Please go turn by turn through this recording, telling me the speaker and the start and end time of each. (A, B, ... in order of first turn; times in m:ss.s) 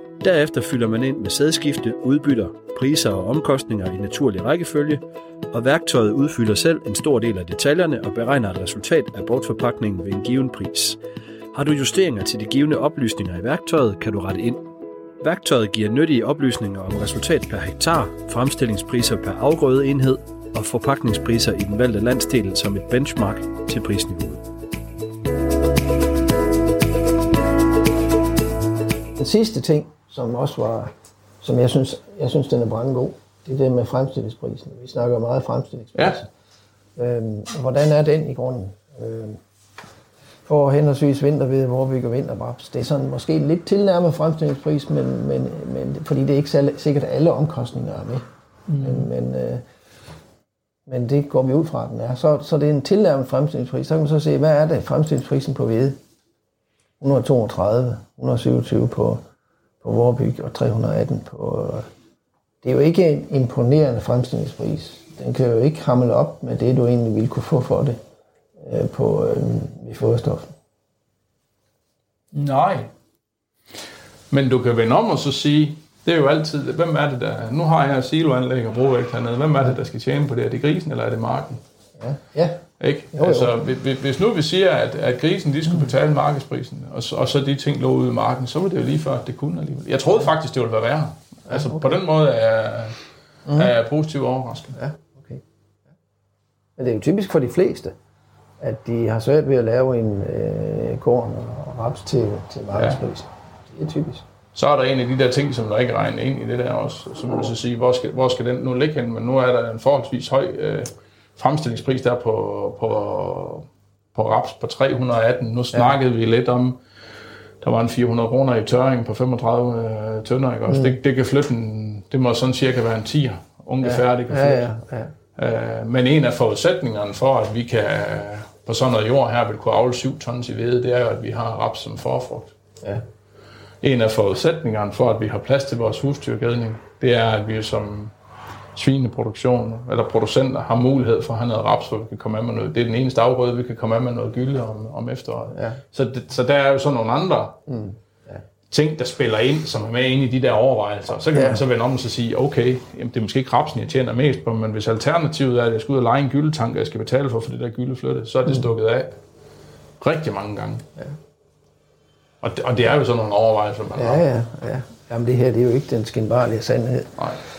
0:00.2-0:11.0 A
0:11.5-0:14.6 A
0:15.2-0:24.4 A
0:29.2-0:36.3 B
0:37.0-0:39.4 B
0:40.5-0:48.2 B
0:48.7-0:49.1 C
0:48.8-0:49.6 B
0:50.9-0:56.0 B
0:57.0-0:59.2 B
0:59.8-1:01.9 B
1:02.6-1:08.0 B
1:08.6-1:10.5 B
1:12.3-1:12.9 C
1:14.3-1:21.6 C
1:22.0-1:23.5 B
1:22.8-1:33.0 C
1:31.5-1:32.0 B
1:33.5-1:33.7 B
1:33.5-1:34.8 C
1:34.7-1:35.4 B
1:36.8-1:38.0 B
1:38.6-1:44.2 B
1:44.6-1:56.8 C
1:57.6-2:04.7 C
2:00.7-2:01.0 B
2:03.8-2:05.1 B
2:05.4-2:12.6 C
2:13.8-2:18.1 C
2:18.8-2:27.6 C
2:25.5-2:25.8 B
2:27.7-2:28.4 B
2:28.7-2:39.2 C
2:31.3-2:31.6 B
2:40.0-2:40.9 C
2:42.4-2:44.2 C
2:43.9-2:47.2 B